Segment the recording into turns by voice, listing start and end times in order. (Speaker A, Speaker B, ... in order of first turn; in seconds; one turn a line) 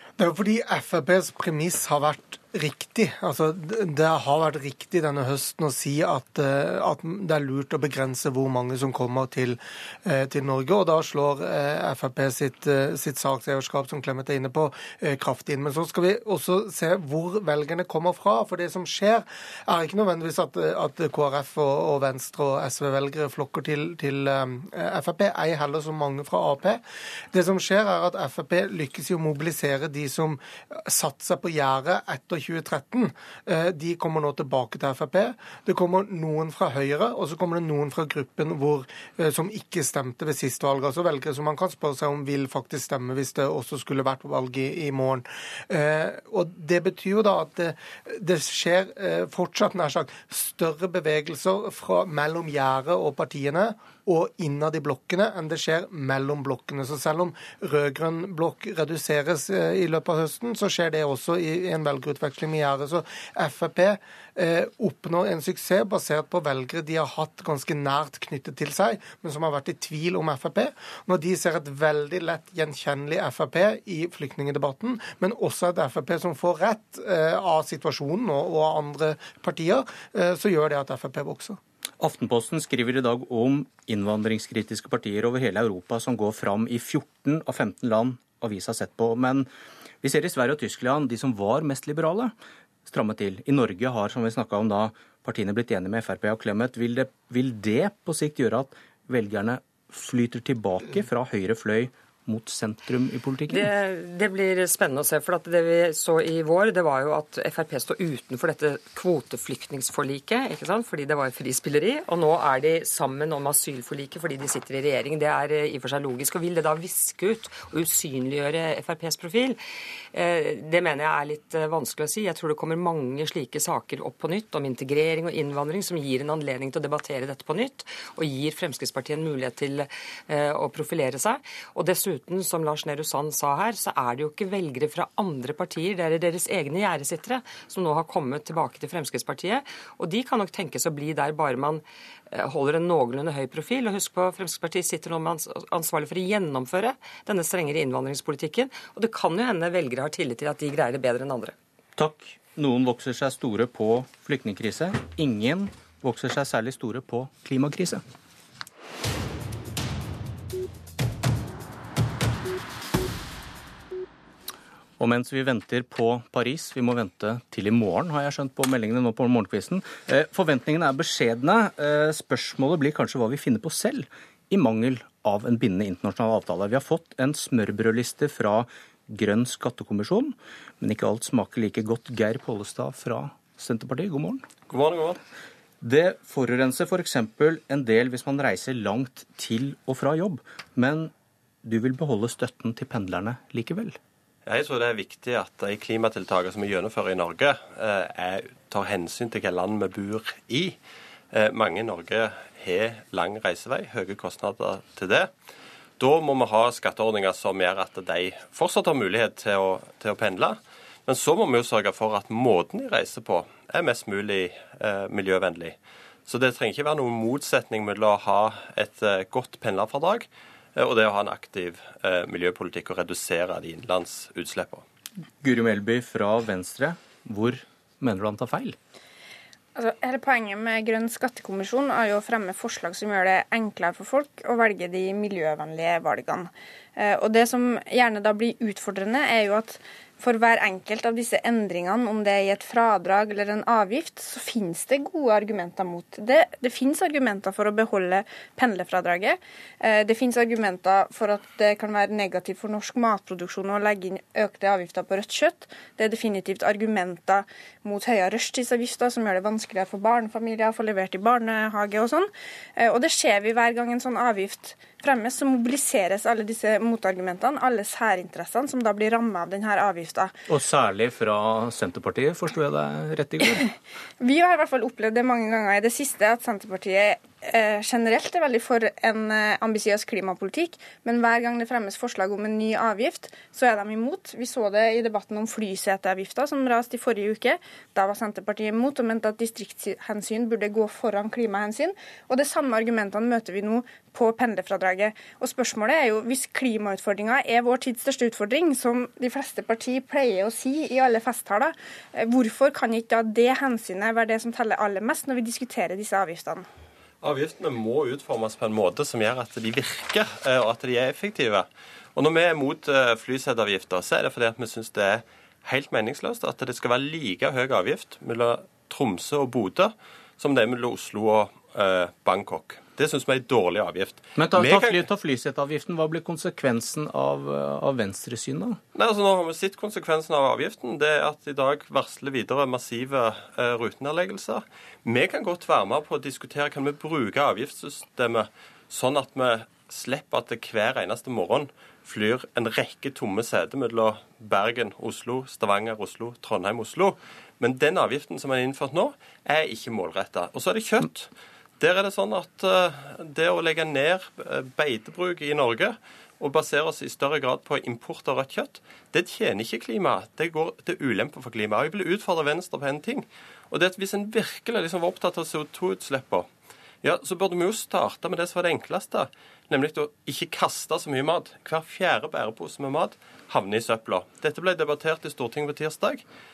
Speaker A: 0.2-26.8
Speaker A: 27.3-81.6
Speaker B: 82.0-89.5
Speaker B: 90.0-92.3
Speaker B: 92.9-103.7
Speaker C: 103.5-119.6
Speaker C: 120.1-151.5
Speaker B: 152.0-158.0
Speaker B: 165.0-184.5
Speaker D: 184.7-185.2
Speaker B: 185.8-191.1
Speaker B: 191.6-194.0
Speaker D: 194.5-200.8
Speaker D: 201.3-205.3
Speaker D: 206.0-215.8
Speaker D: 216.3-224.8
Speaker B: 225.4-228.8
Speaker E: 229.8-270.3
Speaker B: 270.5-273.7
Speaker E: 274.2-306.7
Speaker D: 307.2-325.0
Speaker B: 324.4-328.8
Speaker D: 328.9-366.5
Speaker D: 367.0-376.2